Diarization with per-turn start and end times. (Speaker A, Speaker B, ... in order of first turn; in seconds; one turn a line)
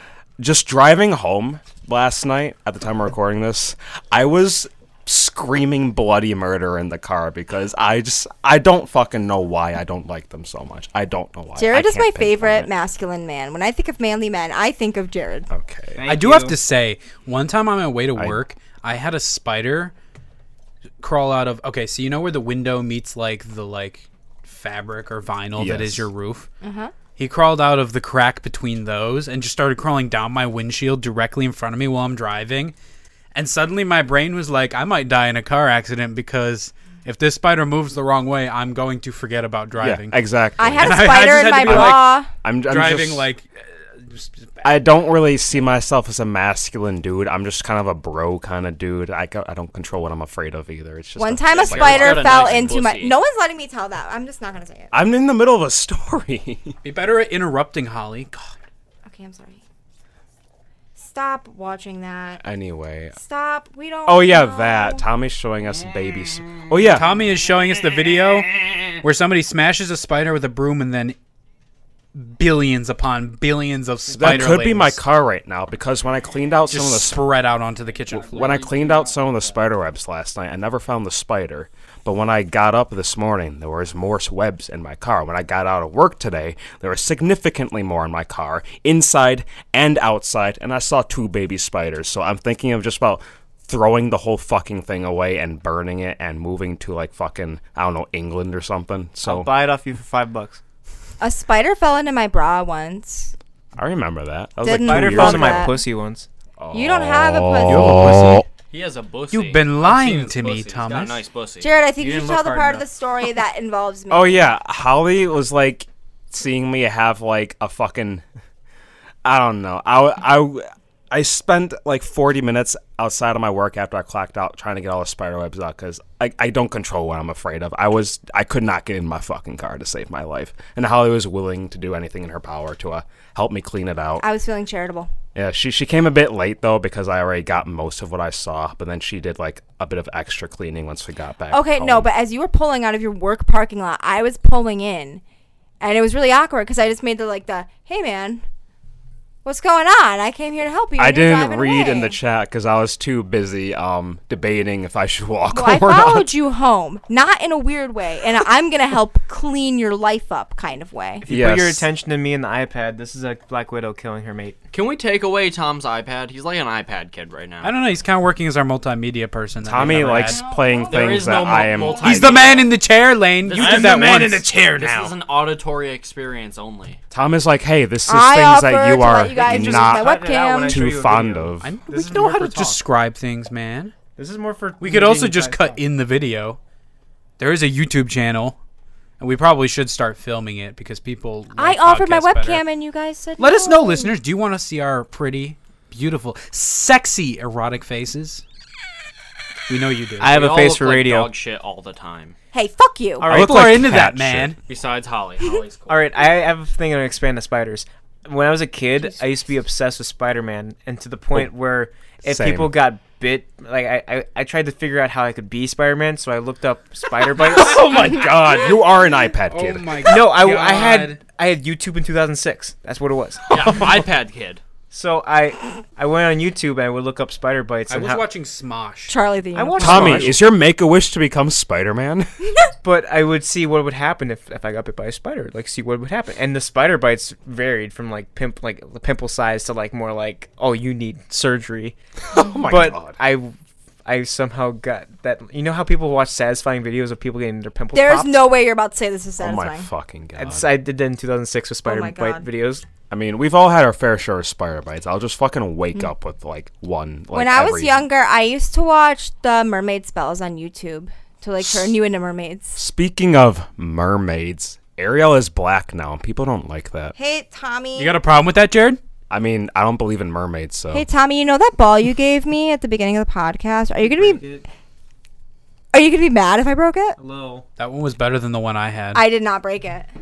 Speaker A: 0.4-12.7
Speaker B: 11.6-15.5
Speaker A: 15.5-16.0
Speaker C: 15.9-16.6
Speaker D: 16.0-19.9
Speaker A: 18.1-18.4
Speaker D: 21.0-26.5
Speaker A: 25.6-26.1
Speaker B: 26.6-26.9
Speaker D: 27.1-32.7
Speaker D: 33.3-43.5
Speaker A: 39.8-43.3
Speaker B: 40.6-42.3
Speaker D: 44.0-44.3
Speaker A: 44.6-52.7
Speaker B: 51.2-54.9
Speaker E: 51.6-53.1
Speaker A: 54.9-56.8
Speaker D: 56.8-58.5
Speaker B: 59.0-59.6
Speaker B: 61.0-62.4
Speaker A: 62.4-63.2
Speaker B: 63.1-65.0
Speaker A: 64.0-67.1
Speaker D: 66.9-71.2
Speaker D: 72.1-75.0
Speaker A: 74.1-77.3
Speaker D: 76.7-78.7
Speaker C: 78.1-79.4
Speaker A: 78.2-99.5
Speaker C: 99.2-100.6
Speaker B: 101.2-103.3
Speaker A: 103.8-105.7
Speaker B: 104.6-105.8
Speaker C: 104.7-106.3
Speaker A: 106.6-108.5
Speaker B: 106.7-108.4
Speaker D: 107.6-108.4
Speaker E: 108.7-111.7
Speaker D: 109.3-111.2
Speaker B: 111.6-114.4
Speaker C: 112.0-112.8
Speaker A: 114.1-118.2
Speaker A: 119.2-134.2
Speaker B: 134.2-135.1
Speaker A: 135.3-142.1
Speaker B: 141.5-145.2
Speaker B: 145.8-148.4
Speaker B: 149.4-152.2
Speaker A: 151.0-156.3
Speaker B: 155.5-161.3
Speaker C: 161.2-164.6
Speaker A: 161.2-161.8
Speaker E: 164.7-167.7
Speaker D: 167.6-170.4
Speaker A: 169.6-172.5
Speaker B: 170.3-171.3
Speaker E: 170.8-172.7
Speaker D: 172.0-174.5
Speaker E: 173.4-177.0
Speaker C: 173.5-175.1
Speaker A: 177.1-180.1
Speaker B: 178.1-181.0
Speaker C: 179.4-182.8
Speaker A: 180.6-181.8
Speaker D: 181.6-183.9
Speaker C: 184.2-185.8
Speaker D: 184.8-186.6
Speaker D: 187.4-188.6
Speaker D: 189.2-192.6
Speaker B: 191.5-194.1
Speaker D: 193.4-198.4
Speaker D: 199.7-200.4
Speaker C: 200.2-201.3
Speaker E: 200.2-202.3
Speaker B: 202.5-203.3
Speaker C: 203.2-204.1
Speaker A: 203.3-204.5
Speaker D: 203.3-204.6
Speaker E: 204.7-206.2
Speaker C: 205.9-217.9
Speaker A: 212.2-212.8
Speaker A: 217.4-220.0
Speaker D: 217.8-218.6
Speaker D: 219.5-221.2
Speaker C: 220.0-223.8
Speaker E: 223.5-224.6
Speaker C: 224.9-228.2
Speaker D: 227.9-229.2
Speaker B: 229.1-230.4
Speaker C: 229.5-230.4
Speaker A: 229.8-232.3
Speaker C: 232.8-241.9
Speaker A: 242.3-243.2
Speaker C: 242.6-248.5
Speaker B: 247.9-249.9
Speaker A: 249.4-250.7
Speaker C: 250.3-252.8
Speaker B: 251.8-252.4
Speaker A: 253.1-258.1
Speaker B: 257.3-262.8
Speaker A: 261.6-261.9
Speaker A: 262.8-267.1
Speaker B: 267.1-268.2
Speaker D: 267.9-269.0
Speaker A: 269.3-271.1
Speaker B: 270.9-274.4
Speaker C: 274.0-274.6
Speaker B: 275.9-277.2
Speaker C: 277.2-277.6
Speaker D: 277.8-279.2
Speaker B: 279.1-280.1